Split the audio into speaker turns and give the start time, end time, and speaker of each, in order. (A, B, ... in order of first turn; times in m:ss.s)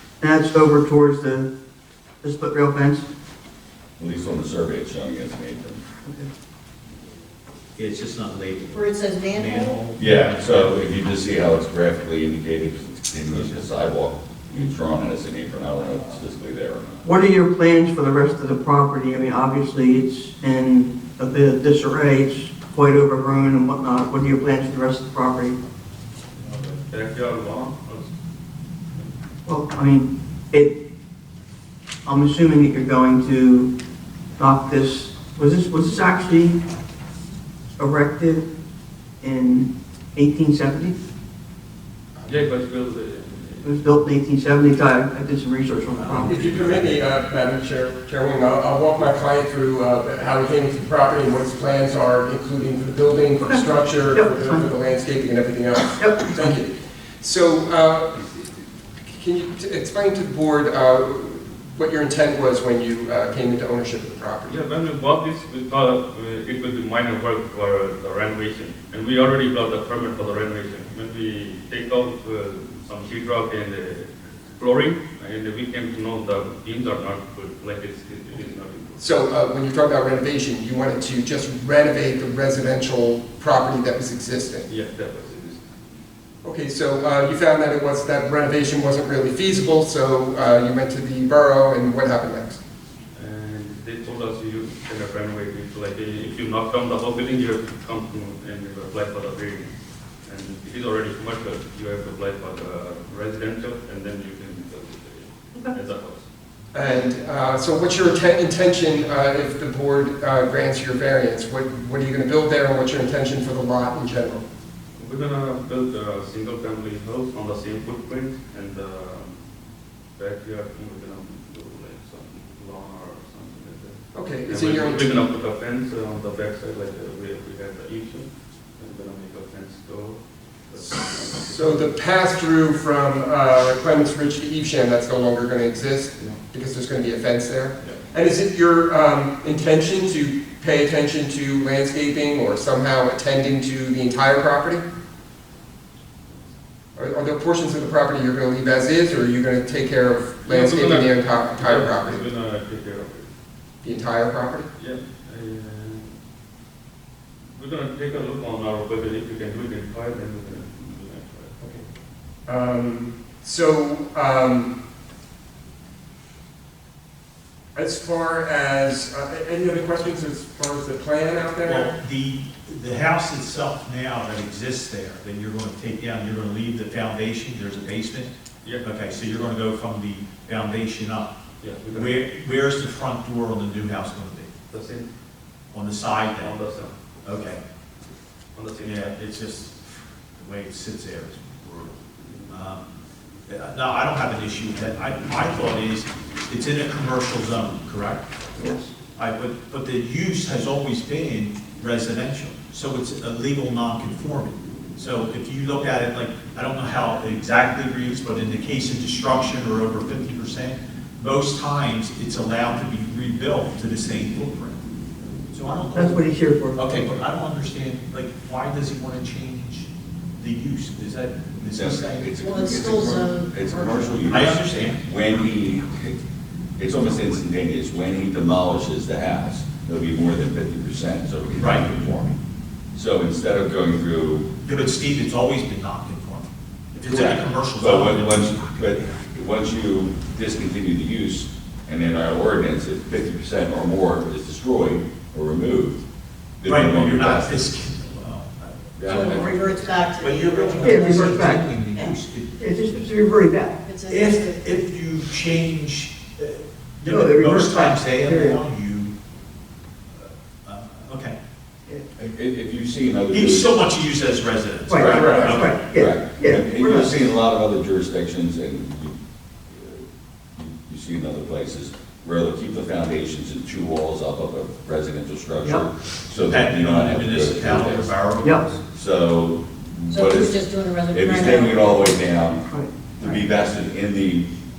0:00.2-0:01.5 A
0:02.2-0:03.1 A
0:04.0-0:05.8 B
0:06.0-0:06.3 A
0:07.7-0:10.8 C
0:08.7-0:09.8 D
0:10.0-0:17.1 B
0:17.0-0:25.6 A
0:26.4-0:28.1 E
0:29.4-0:30.8 A
0:32.0-0:33.7 A
0:34.4-0:36.6 A
0:37.8-0:38.5 A
0:39.2-0:41.0 A
0:42.2-0:42.5 F
0:42.3-0:43.7 E
0:43.6-0:46.6 A
0:46.2-1:04.6 F
0:53.4-0:54.7 A
0:56.0-0:56.6 A
1:04.5-1:19.0 E
1:19.0-1:24.7 F
1:24.7-1:25.6 E
1:26.4-1:32.6 F
1:33.1-1:39.7 E
1:40.2-1:46.2 E
1:46.7-1:54.4 F
1:55.0-1:59.4 E
2:00.2-2:04.0 E
2:04.1-2:05.2 F
2:04.5-2:11.9 E
2:11.3-2:24.8 F
2:27.0-2:32.2 F
2:30.5-2:33.3 E
2:33.8-2:34.7 F
2:34.8-2:36.2 E
2:37.5-2:41.5 E
2:41.6-2:41.8 F
2:42.5-2:44.7 F
2:47.8-2:51.9 F
2:51.6-3:01.3 C
3:01.6-3:02.2 E
3:01.9-3:04.5 C
3:04.7-3:05.1 E
3:05.7-3:06.5 C
3:06.2-3:07.0 E
3:07.2-3:07.6 C
3:08.5-3:09.2 E
3:08.8-3:09.8 C
3:10.3-3:11.9 C
3:12.5-3:12.8 C
3:13.5-3:18.3 C
3:18.6-3:18.9 A
3:19.2-3:34.8 C
3:35.5-3:42.4 C
3:35.9-3:37.1 A
3:41.7-3:46.2 B
3:42.4-3:44.1 D
3:44.2-3:45.1 C
3:46.8-3:52.4 B
3:51.5-3:51.9 C
3:52.9-3:54.5 B
3:54.6-3:59.1 C
3:57.0-4:06.0 B
4:06.6-4:07.6 B
4:06.6-4:09.4 C
4:09.0-4:09.7 B
4:09.1-4:11.3 D
4:10.2-4:12.6 C
4:10.8-4:11.7 A
4:12.6-4:13.8 A
4:13.8-4:14.7 D
4:14.0-4:19.1 C
4:17.0-4:18.6 A
4:20.1-4:21.4 C
4:22.2-4:23.7 B
4:23.3-4:25.8 C
4:24.9-4:27.3 A
4:24.9-4:29.2 B
4:25.1-4:25.5 F
4:29.7-4:30.0 B
4:30.6-4:38.2 B
4:36.4-4:38.8 C
4:38.4-4:38.7 A
4:38.8-4:42.6 B
4:40.1-4:42.2 D
4:42.6-4:43.0 A
4:43.2-4:44.4 B